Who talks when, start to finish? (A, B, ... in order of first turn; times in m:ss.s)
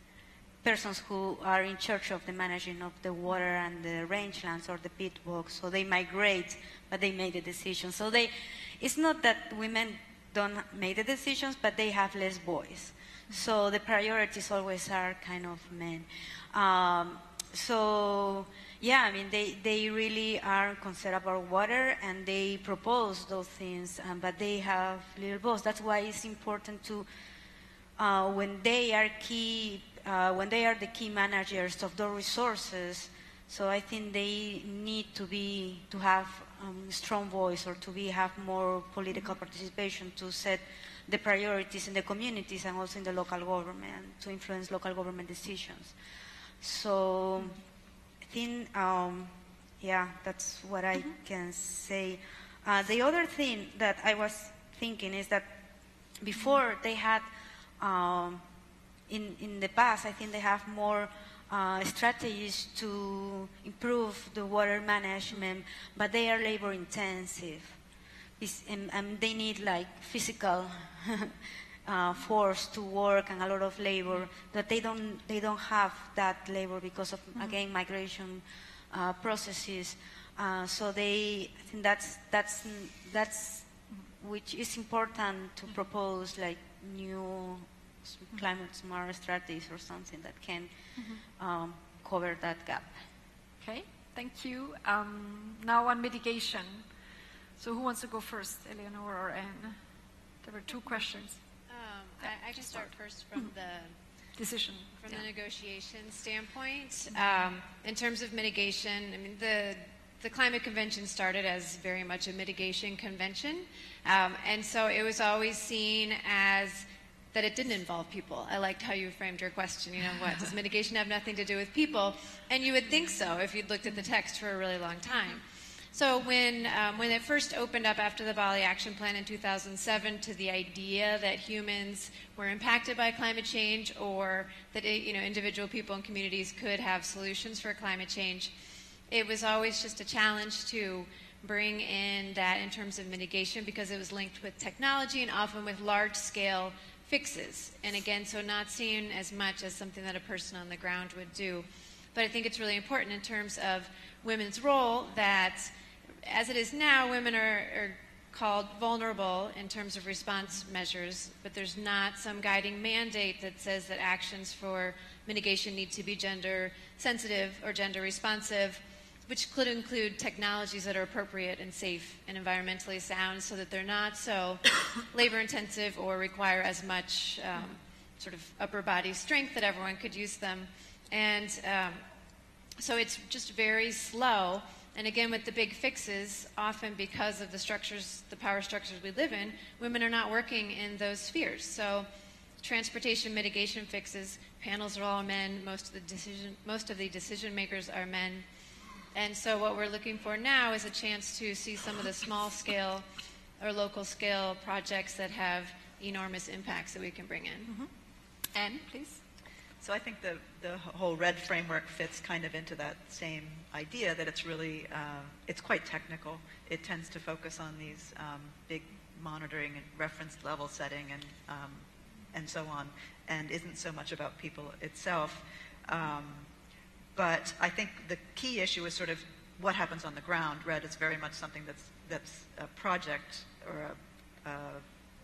0:00.6-0:27.1 A
0:28.0-0:46.0 A
0:46.6-0:47.6 A
0:48.2-0:55.6 A
0:56.2-0:57.3 A
0:57.8-0:58.4 A
0:59.1-1:07.8 A
1:08.4-1:30.8 A
1:31.0-1:31.2 B
1:31.4-1:33.0 A
1:33.6-1:36.8 B
1:37.6-1:39.8 B
1:40.4-1:41.4 B
1:41.7-1:44.0 C
1:44.4-1:45.2 B
1:45.0-2:18.5 C
2:19.1-3:02.0 C
3:02.8-3:12.1 C
3:12.6-3:18.5 C
3:19.1-3:23.1 C
3:23.6-3:27.7 C
3:27.7-3:27.9 B
3:28.5-3:29.2 B
3:29.8-3:46.5 D
3:47.2-3:54.8 D